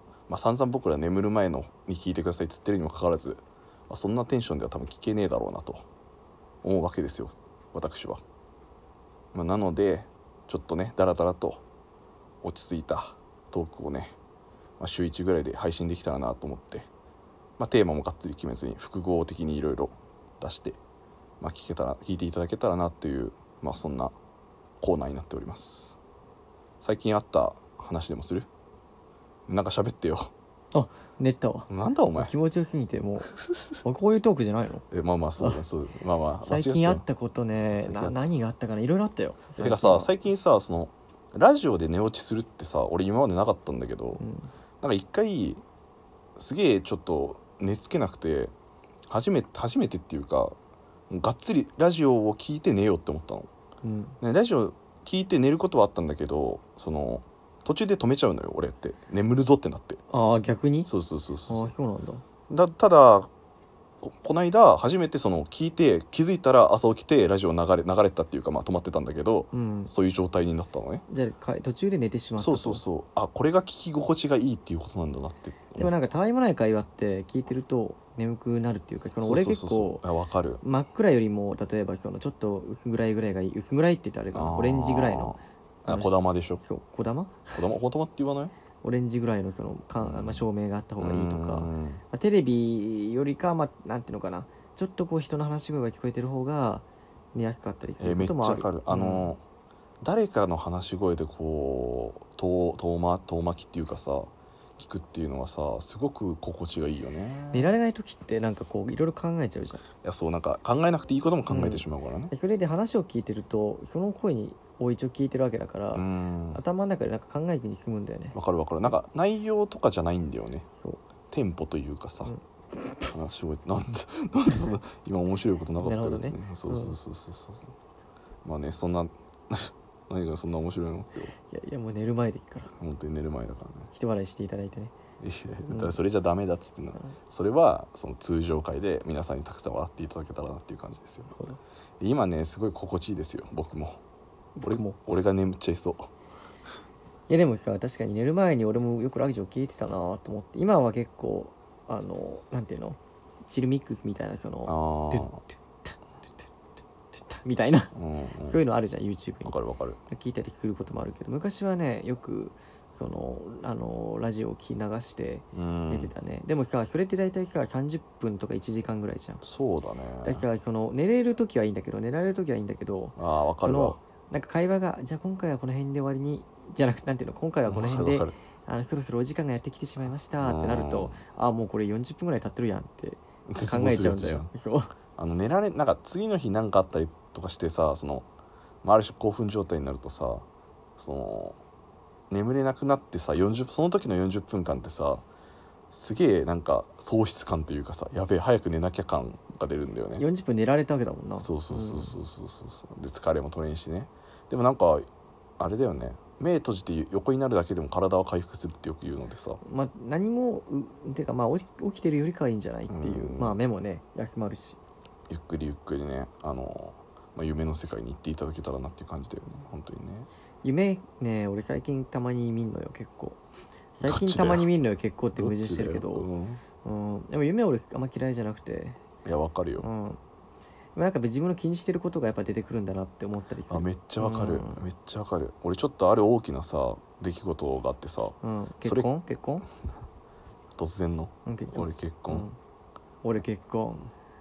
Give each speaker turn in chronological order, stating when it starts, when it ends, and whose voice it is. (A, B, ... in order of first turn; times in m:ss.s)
0:00.3-0:05.9 A
0:06.6-0:08.2 A
0:09.3-0:11.6 A
0:12.4-0:14.2 A
0:14.8-0:16.9 A
0:17.6-0:20.8 A
0:21.4-0:24.1 A
0:24.8-0:26.0 A
0:26.8-0:28.5 A
0:29.5-0:30.3 A
0:30.7-0:33.3 B
0:31.7-0:32.3 A
0:33.4-0:33.8 A
0:33.8-0:34.8 B
0:34.9-0:37.0 A
0:36.4-0:40.1 B
0:37.7-0:38.3 A
0:39.6-0:44.2 A
0:44.2-0:44.5 B
0:44.8-0:45.6 A
0:46.4-0:48.5 A
0:49.1-0:50.6 A
0:51.1-0:53.5 A
0:53.8-0:54.2 B
0:54.2-1:00.0 A
1:00.1-1:00.9 B
1:00.9-1:01.7 A
1:01.5-1:02.2 B
1:02.5-1:03.3 A
1:04.0-1:11.0 A
1:09.5-1:09.9 B
1:11.1-1:12.8 B
1:12.4-1:15.9 A
1:15.8-1:20.0 B
1:19.2-1:20.6 A
1:20.6-1:27.6 B
1:24.3-1:26.6 A
1:27.5-1:28.5 A
1:28.8-1:39.3 B
1:30.0-1:30.4 A
1:31.0-1:32.0 A
1:38.0-1:39.4 A
1:40.0-1:47.7 A
1:47.5-1:49.8 B
1:50.0-1:52.3 A
1:51.5-1:58.4 B
1:55.9-1:56.6 A
1:58.3-2:00.7 A
2:01.3-2:02.3 A
2:03.1-2:07.7 A
2:05.8-2:07.0 B
2:08.4-2:11.3 A
2:11.5-2:12.7 B
2:12.8-2:13.9 A
2:13.9-2:14.9 B
2:15.2-2:21.3 A
2:15.7-2:16.0 B
2:21.3-2:21.6 B
2:22.0-2:24.0 A
2:24.6-2:25.0 B
2:24.6-2:26.1 A
2:27.3-2:36.4 B
2:34.6-2:35.4 A
2:37.1-2:37.9 B
2:37.9-2:38.6 A
2:38.5-2:39.6 B
2:39.4-2:40.0 A
2:40.1-2:49.4 B
2:45.5-2:46.1 A
2:49.4-2:50.4 A
2:50.2-3:04.9 B
2:53.2-2:54.0 A
2:57.7-2:58.4 A
3:00.4-3:01.2 A
3:03.5-3:04.5 A
3:05.2-3:08.3 A
3:08.8-3:10.5 A
3:11.0-3:11.6 A
3:12.3-3:15.2 A
3:15.9-3:20.2 A
3:20.2-3:22.2 B
3:21.4-3:25.1 A
3:25.6-3:29.6 A
3:29.6-3:34.8 B
3:32.9-3:33.6 A
3:35.3-3:40.3 A
3:40.6-3:43.4 B
3:44.0-3:46.3 B
3:44.0-3:44.7 A
3:45.4-3:46.6 A
3:46.8-3:49.0 B
3:49.2-3:49.9 A
3:49.8-3:50.2 B
3:51.0-3:54.8 B
3:53.7-3:59.1 A
3:58.4-3:59.7 B
4:00.8-4:02.5 A
4:01.5-4:02.6 B
4:03.2-4:04.1 B